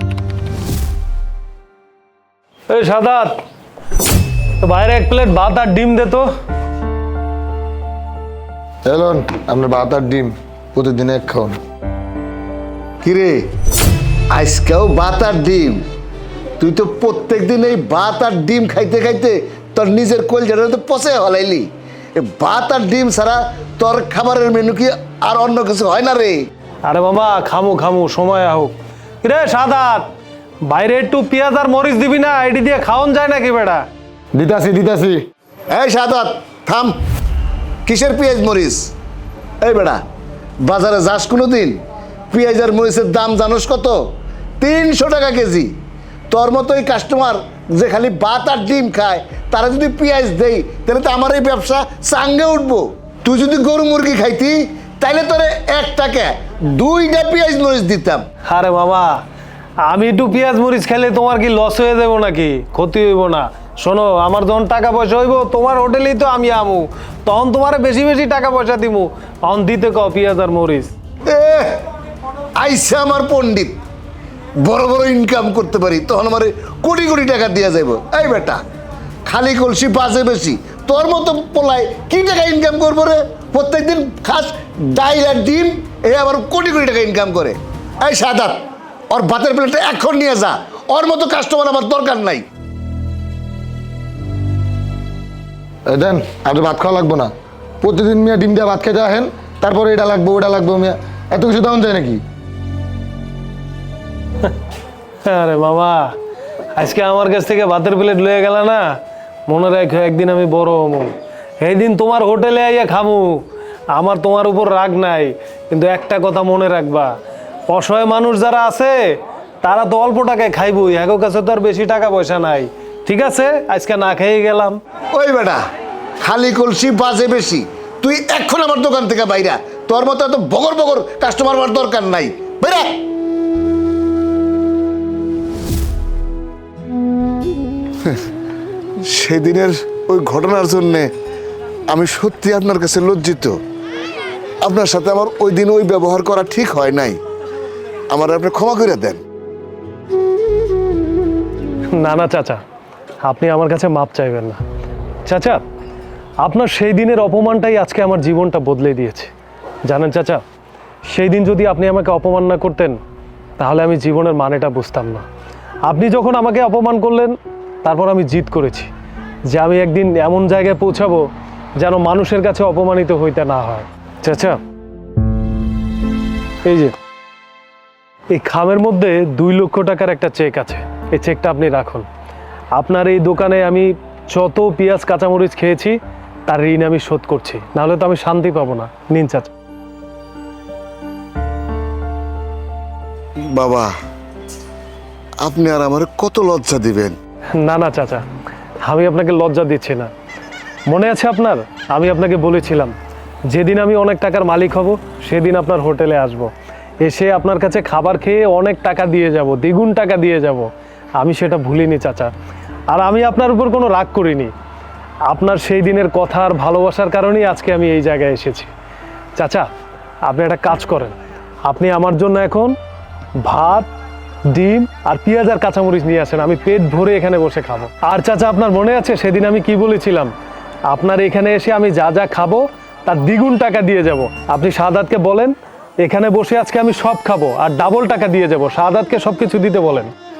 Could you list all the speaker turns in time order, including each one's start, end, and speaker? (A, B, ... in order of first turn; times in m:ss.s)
0:02.7-0:03.4 A
0:04.6-0:06.3 A
0:08.8-0:11.6 B
0:13.0-0:13.4 C
0:14.3-0:15.8 C
0:16.6-0:26.4 C
0:26.8-0:30.1 A
0:30.6-0:33.8 A
0:34.3-0:35.2 B
0:35.7-0:36.9 C
0:37.8-0:38.9 C
0:39.6-0:40.0 C
0:40.6-0:41.8 C
0:42.3-0:44.0 C
0:44.6-0:45.7 C
0:46.3-0:58.2 C
0:58.4-0:59.2 A
0:59.8-1:10.9 A
1:11.3-1:11.8 C
1:12.6-1:13.8 C
1:14.6-1:18.6 C
1:19.2-1:32.4 C
1:35.8-1:37.3 B
1:37.8-1:42.2 B
1:45.2-1:46.1 A
1:46.7-1:48.9 A
1:49.5-1:57.1 A
1:57.7-2:04.8 A
2:05.1-2:05.6 C
2:06.2-2:13.0 C
2:19.0-2:21.1 C
2:21.9-2:23.6 C
2:24.6-2:27.2 C
2:28.1-2:29.2 C
2:31.9-2:32.6 A
2:33.2-2:34.6 A
2:35.2-2:35.6 A
2:36.4-2:39.3 A
2:39.8-2:40.4 A
2:41.0-2:43.0 A
2:43.6-2:45.2 A
2:45.8-2:48.9 A
2:49.5-2:54.6 A
2:56.6-2:56.9 A
2:58.3-3:02.0 A
3:02.7-3:09.5 A
3:13.5-3:13.9 C
3:15.4-3:17.2 C
3:17.5-3:18.2 A
3:18.8-3:20.1 A
3:20.9-3:22.9 A
3:23.5-3:26.5 A
3:27.0-3:32.3 A
3:32.9-3:34.5 A
3:35.3-3:38.7 A
3:39.4-3:39.7 A
3:40.2-3:42.8 A
3:43.4-3:43.9 A
3:44.5-3:50.3 A
3:50.9-4:00.1 A